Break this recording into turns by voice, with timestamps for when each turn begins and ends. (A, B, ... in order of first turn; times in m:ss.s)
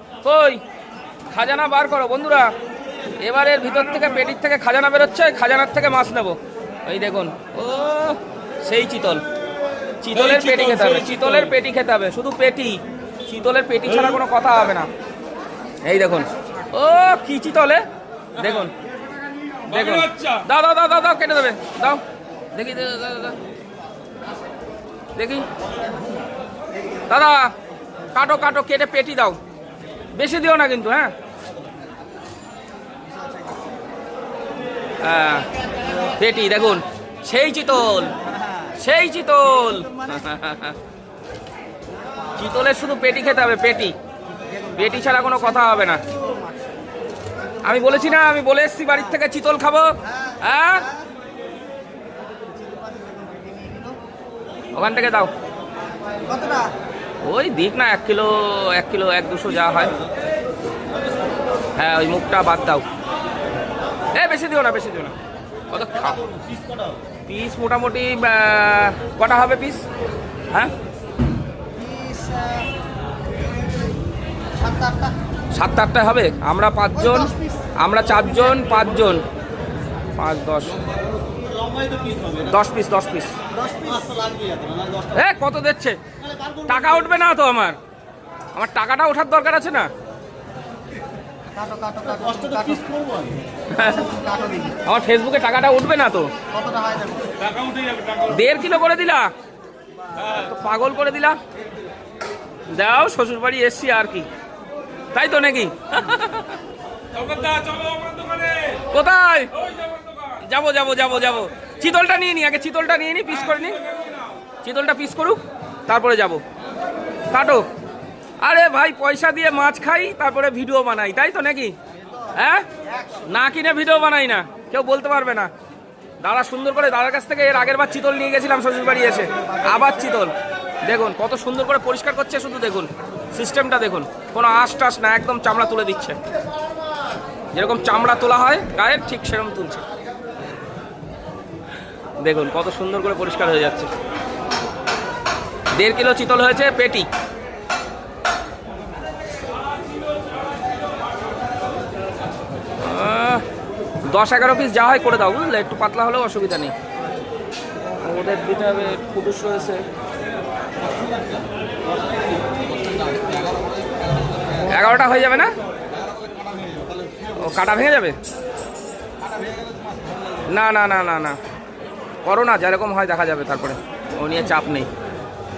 0:00.2-0:00.6 A
0:01.3-0:02.5 A
0:03.2-0:09.2 A
0:10.0-0:14.9 A
0:15.8-0:17.8 A
0:18.4-0:18.7 A
0:19.7-0:22.0 A
0:22.5-0:23.4 A
0:25.2-0:25.5 A
0:27.1-0:27.5 A
0:28.1-0:29.4 A
0:30.2-0:31.1 A
0:35.0-0:35.5 A
0:36.1-0:38.2 A
0:38.7-0:40.8 A
0:42.3-0:43.9 A
0:44.5-0:45.1 B
0:44.7-0:46.0 A
0:46.0-0:46.6 B
0:47.6-0:50.9 A
0:52.5-0:54.0 B
0:54.7-0:55.3 A
0:56.2-0:56.7 B
0:57.2-1:00.1 A
1:01.8-1:02.8 A
1:04.1-1:05.1 A
1:05.7-1:06.2 A
1:07.3-1:09.8 A
1:11.8-1:12.7 B
1:14.6-1:15.1 B
1:15.5-1:19.2 A
1:17.1-1:17.5 B
1:20.2-1:20.8 A
1:22.3-1:23.4 A
1:23.6-1:24.6 B
1:25.1-1:26.0 A
1:26.5-1:27.8 A
1:28.5-1:29.9 A
1:31.5-1:33.2 B
1:33.7-1:34.1 A
1:33.9-1:34.8 B
1:34.8-1:36.3 A
1:36.5-1:37.4 B
1:37.6-1:38.1 C
1:38.1-1:39.3 A
1:40.2-1:41.4 A
1:42.7-1:44.3 A
1:45.1-1:46.6 A
1:47.2-1:48.7 C
1:48.7-1:53.8 A
1:54.6-1:56.4 A
1:57.3-1:57.6 A
1:58.4-2:01.8 A
2:02.3-2:05.5 A
2:03.0-2:03.2 B
2:06.2-2:10.3 A
2:10.8-2:16.2 A
2:17.5-2:19.8 A
2:22.2-2:23.9 A
2:25.7-2:27.1 A
2:32.8-2:33.4 A
2:34.1-2:36.7 A
2:38.0-2:39.8 A
2:43.3-2:43.6 C
2:44.6-2:45.5 A
2:46.2-2:47.2 C
2:47.3-2:48.2 A
2:49.4-2:50.2 C
2:50.4-2:51.4 A
2:52.2-2:54.9 A